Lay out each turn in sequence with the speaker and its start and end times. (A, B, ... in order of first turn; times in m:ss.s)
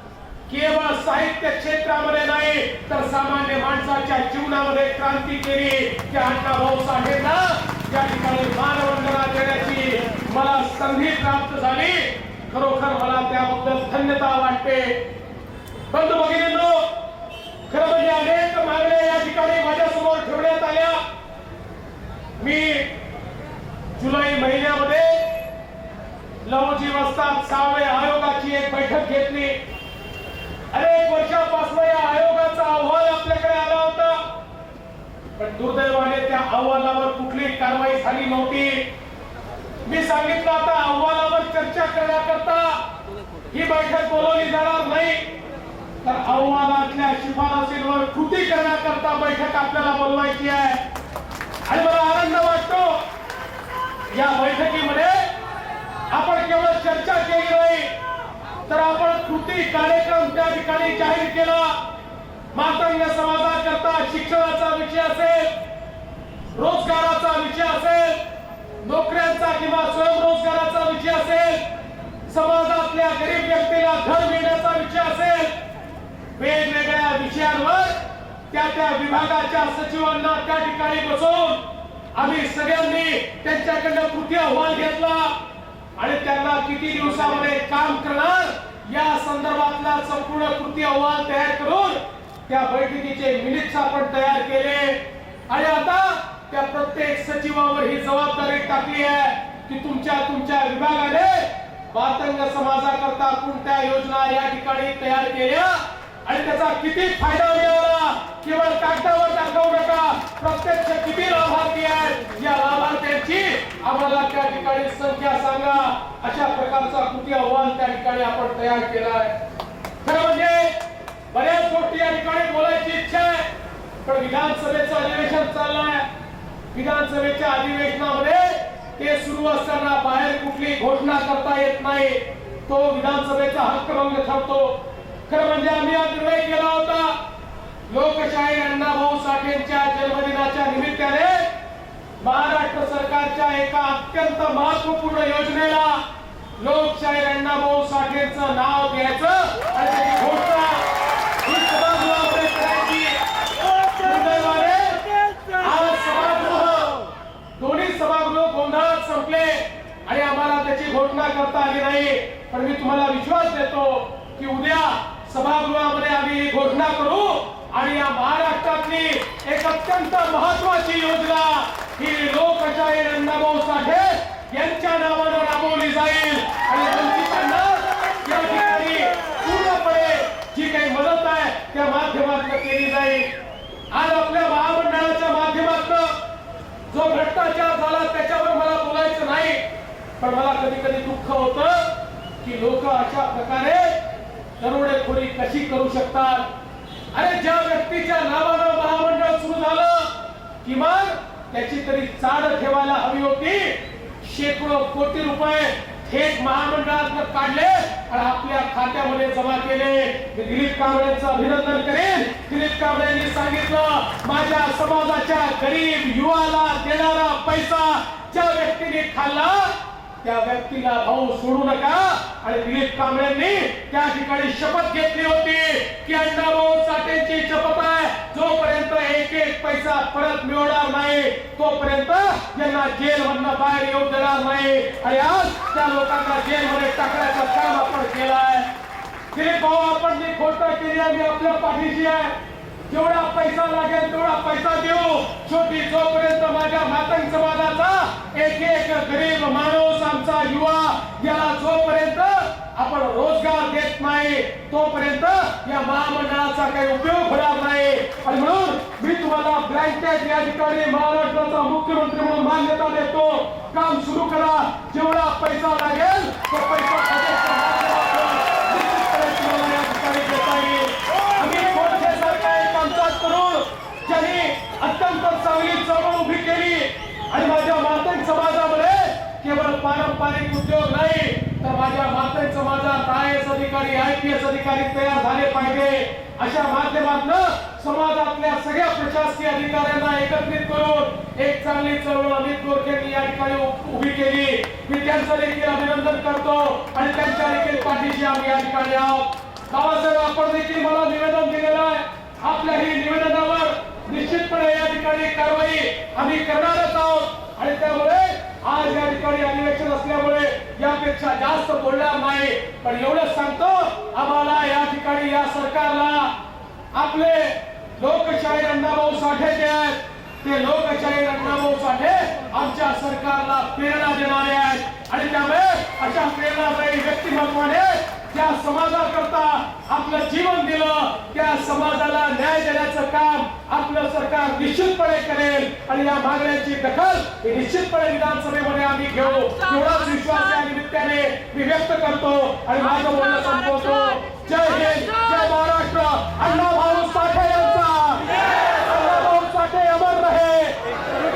0:00.5-0:15.0 A
0:15.9-0:16.9 A
0:17.7-0:21.0 A
0:22.4-0:22.9 A
0:24.0-0:25.2 A
0:26.4-0:29.6 A
0:30.7-0:34.2 A
0:35.4-0:38.9 A
0:39.8-0:42.8 A
0:43.5-0:45.2 A
0:46.0-0:50.8 A
0:51.6-0:53.0 A
0:54.1-0:55.3 A
0:56.1-0:57.9 A
0:58.7-1:01.8 A
1:02.5-1:05.5 A
1:06.5-1:08.2 A
1:08.8-1:11.6 A
1:12.3-1:15.5 A
1:16.3-1:18.0 A
1:18.5-1:21.6 A
1:22.1-1:25.4 A
1:26.0-1:59.3 A
2:00.0-2:00.8 A
2:01.3-2:03.5 A
2:04.0-2:06.0 A
2:06.7-2:17.2 A
2:17.9-2:21.5 A
2:22.2-2:26.0 A
2:26.6-2:30.8 A
2:31.4-2:33.2 A
2:33.9-2:37.0 A
2:37.6-3:03.3 A
3:03.9-3:06.2 A
3:06.9-3:09.6 A
3:10.2-3:14.0 A
3:14.6-3:16.4 A
3:17.1-3:58.7 A
3:59.3-4:02.3 A
4:02.9-5:16.3 A
5:16.9-5:50.8 A